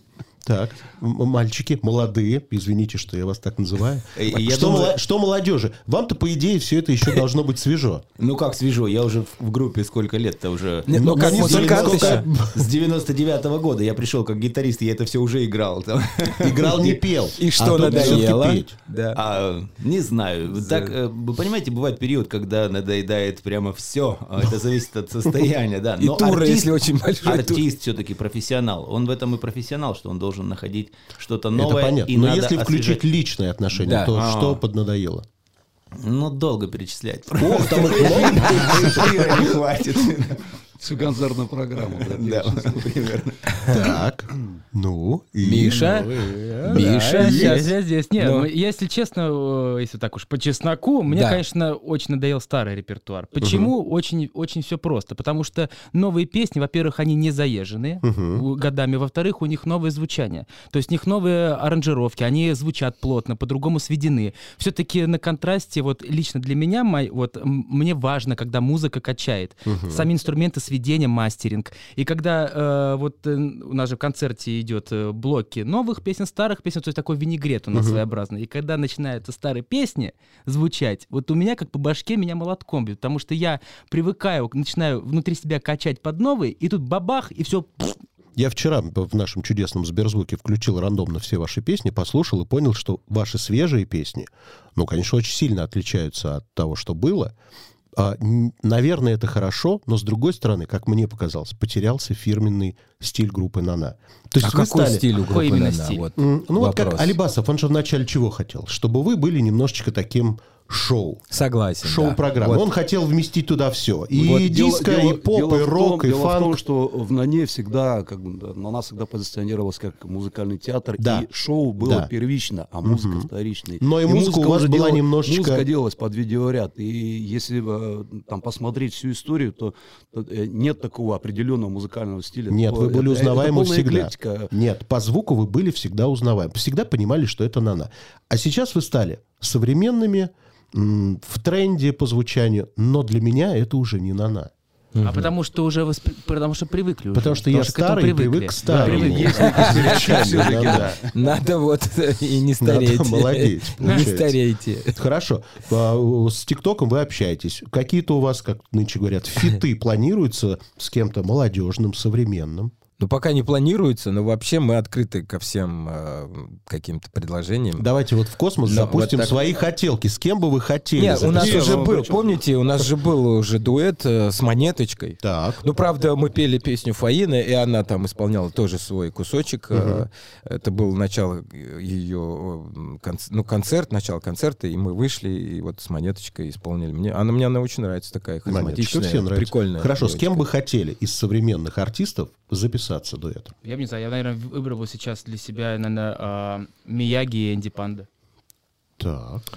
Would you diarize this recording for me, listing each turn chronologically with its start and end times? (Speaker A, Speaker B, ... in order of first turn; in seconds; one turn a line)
Speaker A: 0.4-8.1
Speaker B: 4.2-5.0
Speaker B: 8.2-17.1
Speaker C: 10.9-12.4
Speaker A: 10.9-12.7
Speaker A: 16.4-18.8
Speaker C: 17.4-19.2
Speaker B: 17.7-18.4
Speaker B: 19.1-33.0
Speaker C: 20.5-20.9
Speaker C: 26.0-27.6
Speaker A: 31.6-35.3
Speaker C: 33.8-34.1
Speaker B: 34.1-34.6
Speaker B: 36.0-40.5
Speaker A: 37.4-39.5
Speaker D: 40.8-42.9
Speaker B: 42.1-43.7
Speaker A: 43.7-47.6
Speaker C: 45.4-48.5
Speaker D: 45.7-46.4
Speaker E: 46.7-88.0
Speaker C: 51.1-51.4
Speaker A: 53.4-53.7
Speaker A: 58.0-58.5
Speaker A: 69.7-70.1
Speaker A: 77.7-78.0
Speaker A: 88.4-97.3
Speaker A: 97.9-105.1
Speaker C: 104.4-107.2
Speaker E: 105.2-106.0
Speaker A: 106.2-111.2
Speaker C: 111.3-112.7
Speaker A: 111.8-116.6
Speaker C: 114.2-114.5
Speaker D: 114.3-134.5
Speaker A: 121.0-121.3
Speaker A: 121.8-122.1
Speaker A: 122.8-125.7
Speaker A: 132.5-144.5
Speaker C: 144.9-145.3
Speaker E: 145.0-150.2
Speaker A: 147.1-150.9
Speaker D: 148.6-151.1
Speaker C: 149.4-155.0
Speaker A: 152.6-162.8
Speaker C: 163.0-167.9
Speaker A: 167.8-172.1
Speaker C: 168.6-169.4
Speaker C: 170.9-190.4
Speaker D: 171.3-172.4
Speaker A: 175.2-175.6
Speaker A: 179.7-180.1
Speaker A: 188.5-193.5
Speaker E: 193.6-198.1
Speaker A: 199.0-199.5